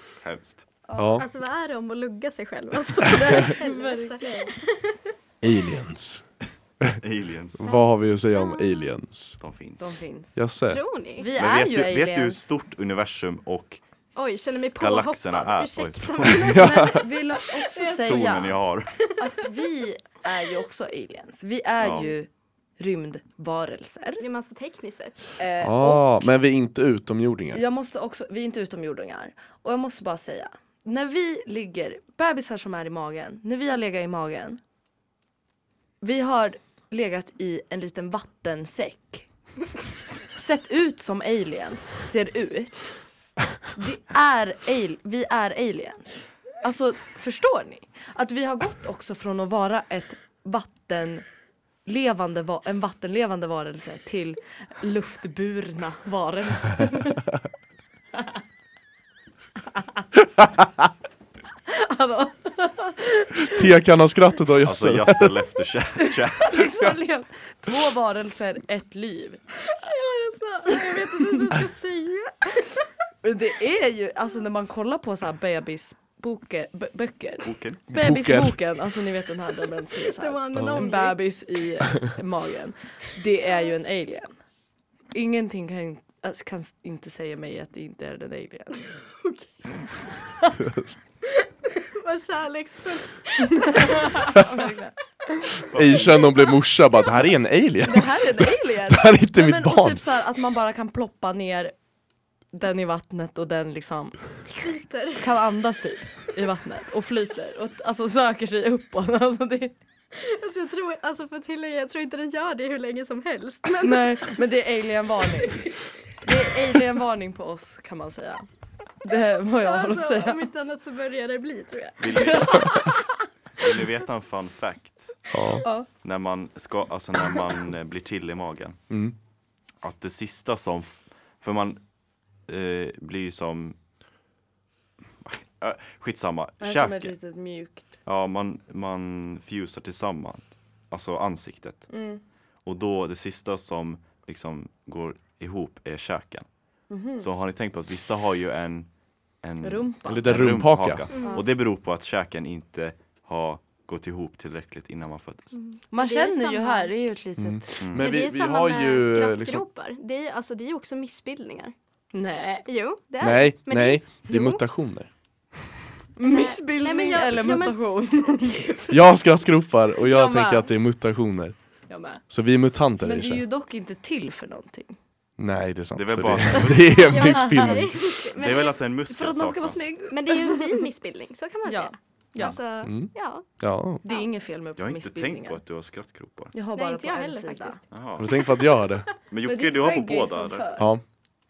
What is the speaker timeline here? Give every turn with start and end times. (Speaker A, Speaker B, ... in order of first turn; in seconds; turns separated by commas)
Speaker A: 0.2-0.7, Speaker B: 0.9-1.2, Speaker C: 1.0-1.2, Speaker D: 1.2-5.1, Speaker B: 3.0-4.5, Speaker C: 5.4-6.2, Speaker A: 7.0-7.7, Speaker C: 7.6-9.4, Speaker D: 7.6-8.9, Speaker A: 9.4-10.0, Speaker B: 9.8-10.4, Speaker C: 10.4-10.8, Speaker D: 10.7-11.3, Speaker B: 11.2-12.5, Speaker A: 11.4-13.8, Speaker D: 14.2-19.4, Speaker A: 14.8-16.7, Speaker C: 16.5-17.0, Speaker B: 16.6-18.6, Speaker A: 18.1-18.9, Speaker B: 19.2-24.2, Speaker A: 21.8-22.1, Speaker D: 24.2-25.3, Speaker B: 25.4-26.3, Speaker C: 25.6-27.6, Speaker B: 27.5-34.6, Speaker B: 36.0-39.3, Speaker B: 40.3-43.0, Speaker B: 43.7-51.3, Speaker B: 51.9-57.2, Speaker B: 59.8-60.0, Speaker B: 61.7-63.6, Speaker C: 63.5-65.4, Speaker A: 64.6-66.8, Speaker B: 66.0-69.4, Speaker D: 69.6-72.9, Speaker B: 70.7-71.5, Speaker B: 73.2-84.3, Speaker A: 77.4-77.8, Speaker C: 77.9-78.6, Speaker D: 80.1-81.3, Speaker C: 80.6-80.8, Speaker B: 85.1-88.9, Speaker D: 89.2-90.0, Speaker D: 91.4-94.8, Speaker B: 93.7-95.0, Speaker A: 95.7-96.4, Speaker C: 95.7-100.0, Speaker B: 97.8-101.8, Speaker B: 102.5-104.2, Speaker D: 104.5-105.3, Speaker B: 105.2-109.8, Speaker D: 110.1-114.4, Speaker B: 113.8-118.5, Speaker B: 119.0-120.4, Speaker D: 119.6-123.0, Speaker A: 122.0-122.9, Speaker B: 122.1-123.0, Speaker A: 123.6-125.3, Speaker C: 125.3-125.7, Speaker A: 126.0-128.8, Speaker C: 128.9-129.2, Speaker A: 129.8-131.8, Speaker A: 132.5-133.8, Speaker A: 135.2-137.2, Speaker B: 136.6-137.9, Speaker A: 138.1-142.0, Speaker B: 141.9-142.2, Speaker A: 142.6-146.5, Speaker B: 146.9-147.3, Speaker A: 147.2-155.6, Speaker B: 149.6-150.3, Speaker C: 150.1-151.1, Speaker D: 151.1-151.4, Speaker B: 151.2-151.5, Speaker D: 155.5-156.9, Speaker B: 155.9-157.7, Speaker C: 157.4-159.6, Speaker A: 157.8-158.1, Speaker D: 157.9-161.7, Speaker B: 162.1-162.7, Speaker D: 162.7-164.6, Speaker C: 163.2-165.1, Speaker B: 166.2-169.0, Speaker D: 166.2-167.8, Speaker C: 168.9-171.6, Speaker B: 170.0-170.7, Speaker B: 171.9-172.2, Speaker C: 172.3-173.4, Speaker B: 173.0-175.0, Speaker C: 175.4-178.0, Speaker A: 175.9-177.4, Speaker D: 176.9-178.8, Speaker B: 177.4-177.8, Speaker A: 178.3-179.9, Speaker B: 179.1-180.9, Speaker D: 180.1-183.5, Speaker B: 181.7-182.6, Speaker C: 182.8-184.0, Speaker B: 184.0-185.6, Speaker D: 184.1-184.3, Speaker A: 184.8-186.5, Speaker B: 186.5-187.8, Speaker D: 186.7-188.9, Speaker A: 187.9-188.3, Speaker C: 188.2-189.1, Speaker A: 189.3-190.7, Speaker B: 189.4-190.9, Speaker C: 190.8-191.0